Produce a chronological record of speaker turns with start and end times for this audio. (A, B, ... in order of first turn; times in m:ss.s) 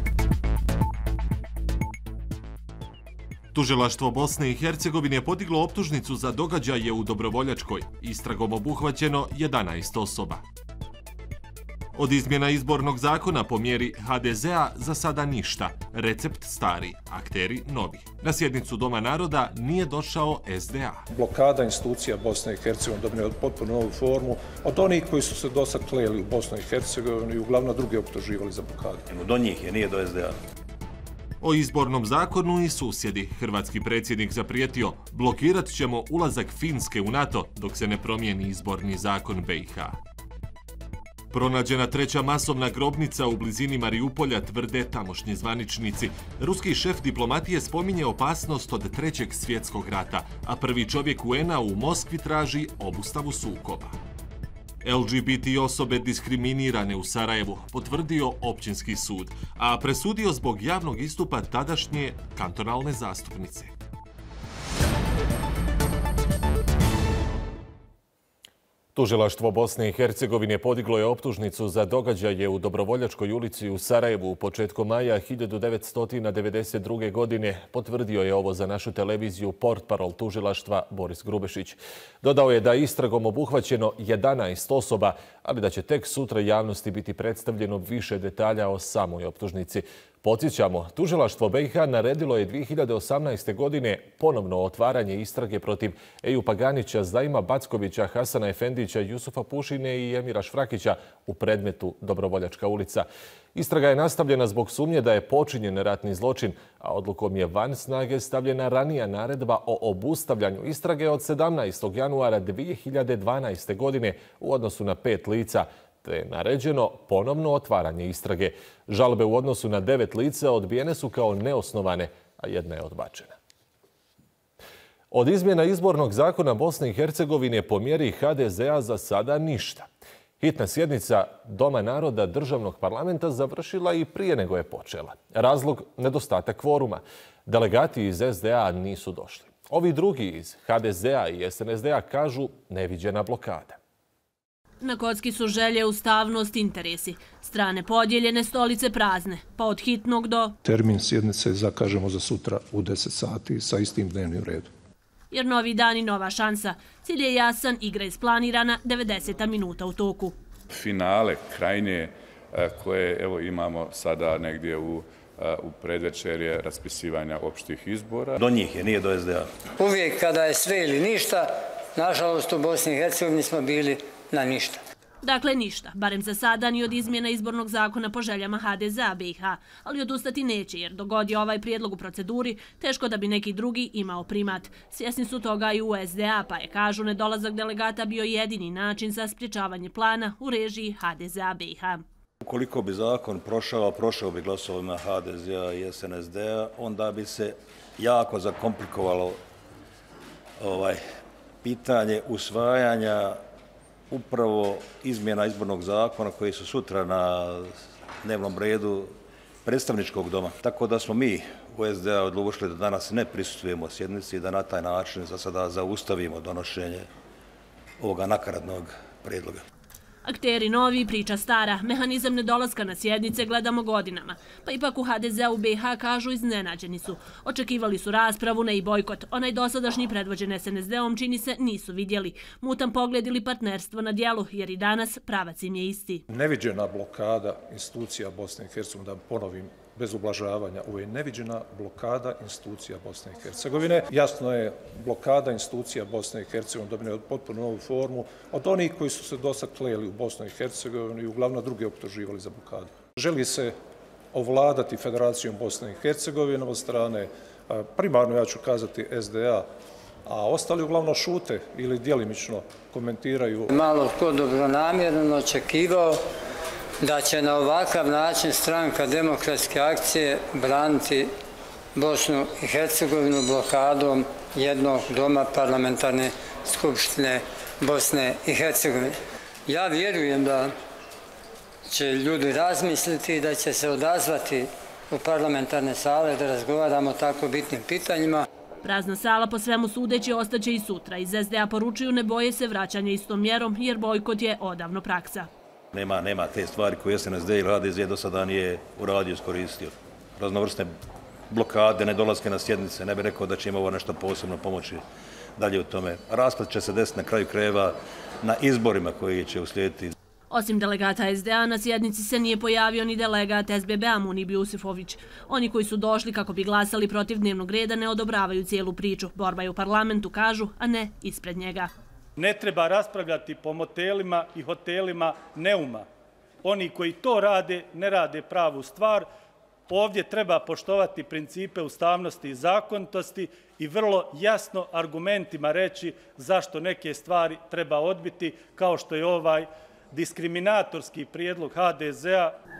0:03.5-0:10.4 A
0:11.9-0:21.0 A
0:21.1-0:29.0 B
0:29.1-0:30.3 C
0:31.4-0:40.0 A
0:41.3-0:54.0 A
0:54.8-1:03.7 A
1:08.9-2:03.3 A
2:05.1-2:09.9 A
2:10.4-2:23.8 A
2:24.8-2:30.6 D
2:30.6-2:34.7 B
2:35.3-2:40.4 D
2:40.7-2:48.4 E
2:48.4-2:49.5 C
2:49.8-2:54.8 F
2:55.2-3:12.0 D
3:12.4-3:19.4 C
3:20.6-3:21.0 C
3:21.6-3:23.4 C
3:24.1-3:29.1 C
3:29.6-3:37.1 C
3:38.0-3:39.6 C
3:40.2-3:56.2 D
3:56.3-4:13.8 B
4:14.3-4:19.7 B
4:20.2-4:23.7 B
4:23.7-4:26.2 F
4:27.0-4:31.3 F
4:31.9-4:40.7 F
4:41.9-4:48.4 F
4:48.8-4:55.5 D
4:55.9-5:00.9 C
5:01.5-5:05.0 C
5:05.6-5:10.1 C
5:10.5-5:21.9 D
5:22.4-5:26.0 G
5:26.6-5:29.2 G
5:29.9-5:42.5 G